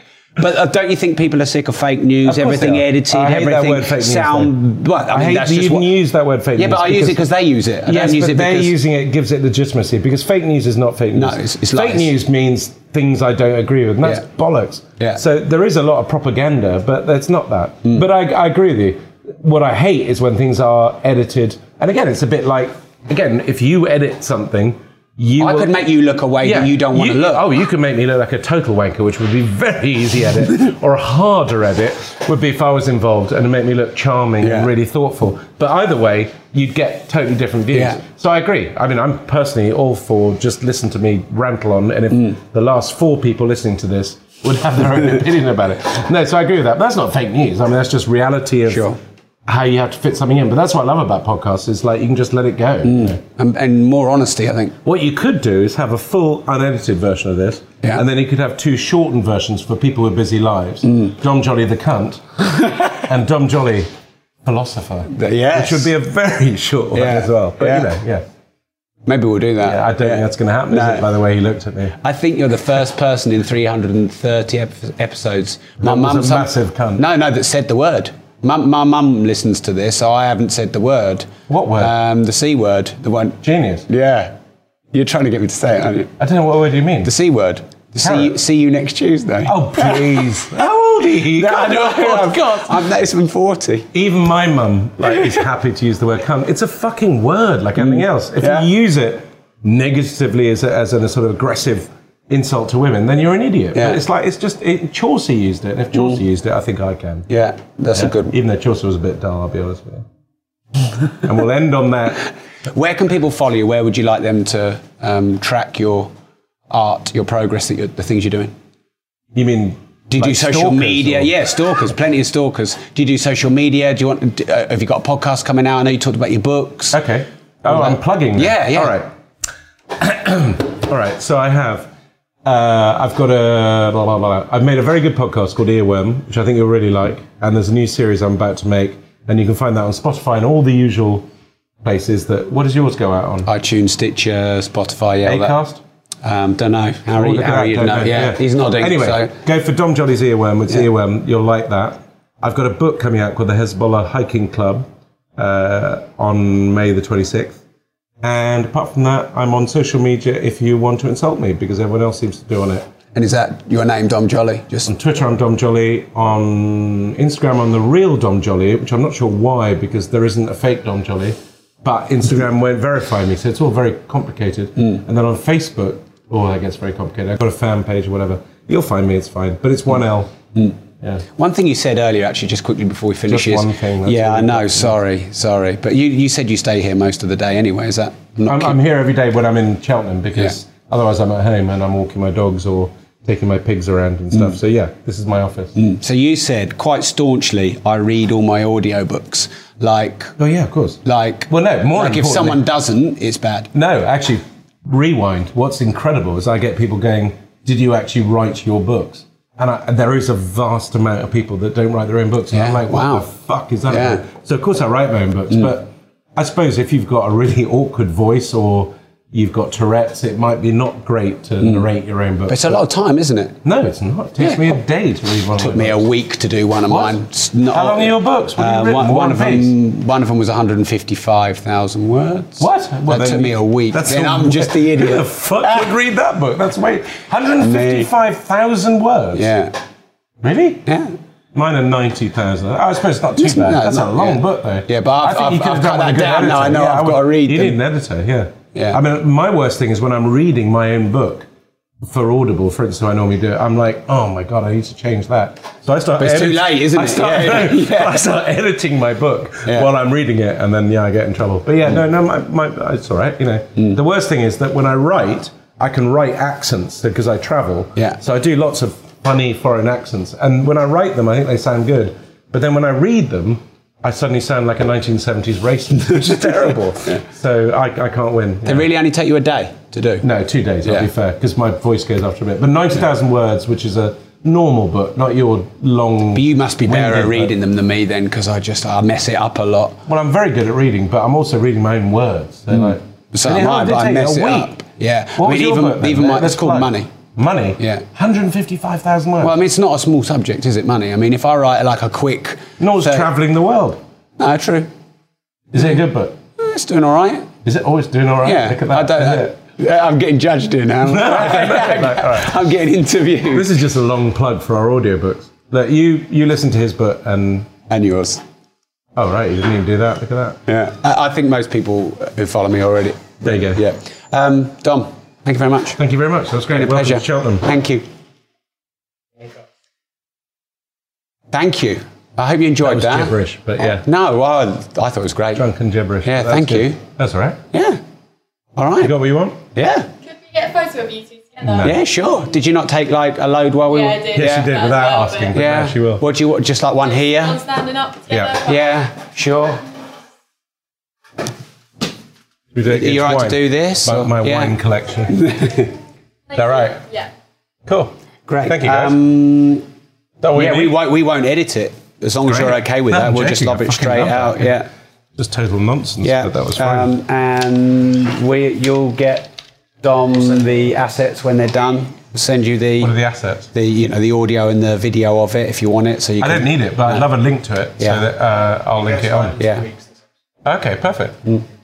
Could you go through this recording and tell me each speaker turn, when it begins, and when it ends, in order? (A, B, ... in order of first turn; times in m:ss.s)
0:00.4-0:05.9 A
0:02.2-0:07.3 B
0:06.6-0:08.8 A
0:07.8-0:25.8 B
0:11.2-0:12.1 A
0:25.4-0:27.4 A
0:26.4-0:53.2 B
0:34.4-0:34.7 A
0:37.7-0:38.0 A
0:48.7-0:49.0 A
0:52.8-0:54.8 A
0:54.8-1:03.9 B
1:02.5-1:03.0 A
1:04.4-1:08.3 B
1:05.1-1:05.9 A
1:06.9-1:07.9 A
1:09.1-1:11.1 A
1:09.6-1:12.0 B
1:12.0-1:24.3 A
1:15.8-1:17.1 B
1:21.5-1:21.9 B
1:23.4-1:23.9 B
1:24.9-1:26.1 A
1:26.2-1:27.1 B
1:27.0-1:30.6 A
1:28.0-1:28.4 B
1:29.4-1:32.8 B
1:31.2-1:33.9 A
1:33.9-1:47.3 B
1:37.8-1:38.7 A
1:43.7-1:44.0 A
1:47.3-1:48.4 A
1:47.9-1:50.1 B
1:51.2-1:52.2 B
1:52.7-1:56.1 A
1:56.7-1:58.5 A
1:59.3-2:01.6 B
2:00.1-2:07.0 A
2:06.9-2:09.1 B
2:07.7-2:09.0 A
2:10.0-2:11.9 B
2:12.4-2:21.3 B
2:21.8-2:23.5 B
2:23.5-2:25.6 A
2:25.2-2:25.8 B
2:26.2-2:29.3 A
2:27.1-2:37.6 B
2:38.2-2:42.9 B
2:43.2-2:44.9 A
2:44.9-3:00.4 B
3:01.4-3:08.8 A
3:03.3-3:05.0 B
3:08.5-3:15.8 B
3:15.8-3:20.3 A
3:20.4-3:22.7 B
3:21.0-3:23.7 A
3:23.7-3:42.8 B
3:32.5-3:33.3 A
3:33.9-3:34.2 A
3:42.5-3:43.6 A
3:43.6-3:46.0 B
3:44.4-3:44.7 A
3:45.6-3:55.9 A
3:46.9-3:49.8 B
3:52.6-3:59.5 B
3:57.6-3:58.1 A
3:59.4-3:59.8 A
4:00.4-4:00.9 B
4:00.9-4:01.2 A
4:01.5-4:11.5 B
4:03.4-4:07.8 A
4:12.0-4:38.9 B
4:16.2-4:18.2 A
4:38.6-4:40.3 A
4:40.2-4:47.5 B
4:40.8-4:41.1 A
4:46.4-4:50.0 A
4:50.1-4:54.7 B
4:52.7-4:57.1 A
4:55.4-4:59.6 B
4:57.8-4:58.0 A
4:59.4-5:03.3 A
5:02.8-5:04.0 B
5:04.4-5:04.9 A
5:05.7-5:06.4 B
5:06.6-5:07.5 A
5:07.6-5:09.5 B
5:08.4-5:13.7 A
5:11.0-5:12.6 B
5:13.5-5:17.7 B
5:17.9-5:18.4 A
5:19.2-5:20.6 B
5:20.7-5:26.0 A
5:23.4-5:23.8 B
5:26.0-5:27.7 B
5:26.8-5:28.0 A
5:31.5-5:33.4 A
5:32.8-5:34.1 B
5:34.0-5:35.7 A
5:35.5-5:37.6 B
5:36.2-5:37.0 A
5:37.7-5:38.0 A
5:38.8-5:39.1 A
5:39.0-5:39.6 B
5:39.8-5:40.1 A
5:40.2-5:41.9 C
5:41.6-5:42.0 B
5:41.8-5:44.7 A
5:43.9-5:45.5 C
5:44.3-5:46.2 B
5:45.5-5:47.7 A
5:47.1-5:49.0 C
5:48.3-5:48.6 B
5:48.6-5:49.8 A
5:52.7-5:55.5 B
5:52.9-5:54.8 A
5:55.3-5:55.9 A
5:56.5-5:57.3 C
5:56.5-5:57.0 B
5:57.9-5:59.2 B
5:58.5-5:59.9 A
6:00.4-6:01.0 B
6:00.5-6:04.9 A
6:02.4-6:04.8 B
6:05.4-6:07.2 B
6:06.2-6:13.1 A
6:13.0-6:13.7 B
6:13.7-6:17.3 A
6:16.4-6:19.7 B
6:18.0-6:18.2 A
6:19.5-6:19.9 A
6:20.6-6:21.5 B